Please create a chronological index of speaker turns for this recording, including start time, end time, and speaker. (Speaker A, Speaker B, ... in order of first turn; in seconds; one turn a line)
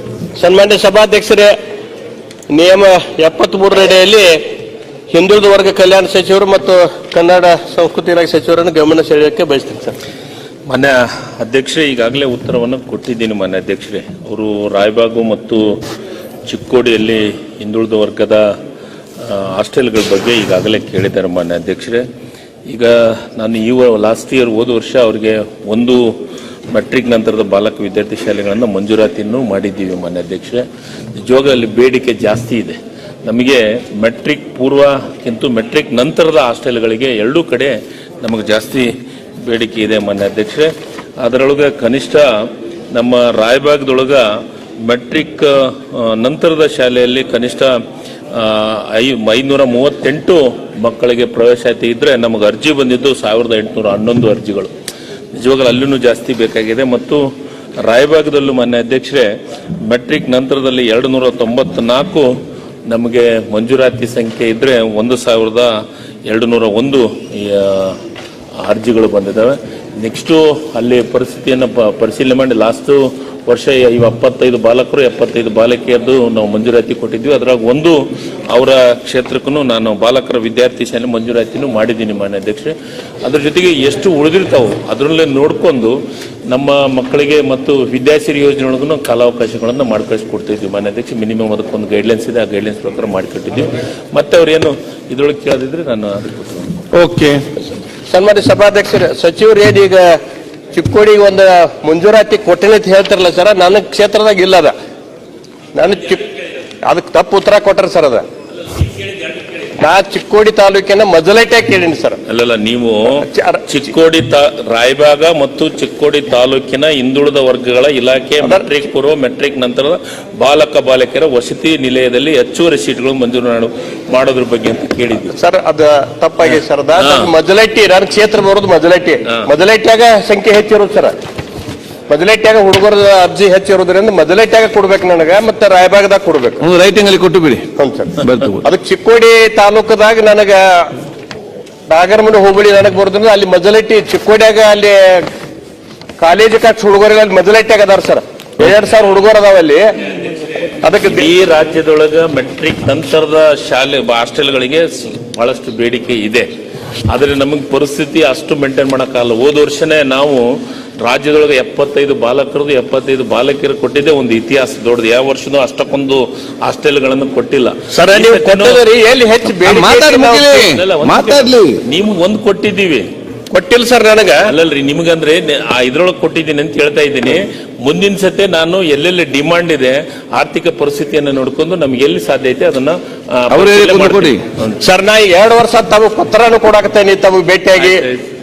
Speaker A: 0.4-1.5
Speaker A: 2.5-4.4
Speaker A: 5.1-9.9
Speaker B: 10.7-15.8
Speaker B: 16.5-18.5
Speaker B: 19.2-22.1
Speaker B: 22.7-26.1
Speaker B: 26.7-38.9
Speaker B: 39.4-44.2
Speaker B: 44.8-47.7
Speaker B: 48.3-54.7
Speaker B: 55.3-57.2
Speaker B: 57.8-59.3
Speaker B: 59.9-62.3
Speaker B: 62.9-65.7
Speaker B: 66.3-68.0
Speaker B: 68.6-78.0
Speaker B: 78.5-96.8
Speaker C: 96.9-97.4
Speaker A: 98.1-100.2
Speaker A: 100.7-104.7
Speaker A: 105.8-106.3
Speaker A: 106.8-108.2
Speaker A: 109.8-112.2
Speaker B: 112.3-125.3
Speaker A: 113.2-113.8
Speaker A: 125.3-131.1
Speaker B: 127.0-127.3
Speaker A: 132.1-136.6
Speaker C: 136.6-137.7
Speaker A: 137.8-140.9
Speaker C: 138.2-138.6
Speaker A: 141.9-145.3
Speaker A: 146.2-149.8
Speaker A: 150.8-151.3
Speaker B: 151.0-156.5
Speaker B: 157.1-160.4
Speaker B: 161.0-168.8
Speaker A: 167.9-170.6
Speaker C: 169.6-171.8
Speaker B: 170.3-173.1
Speaker A: 173.5-174.5
Speaker B: 174.4-184.8
Speaker C: 183.5-184.4
Speaker A: 184.8-188.0
Speaker B: 187.8-188.2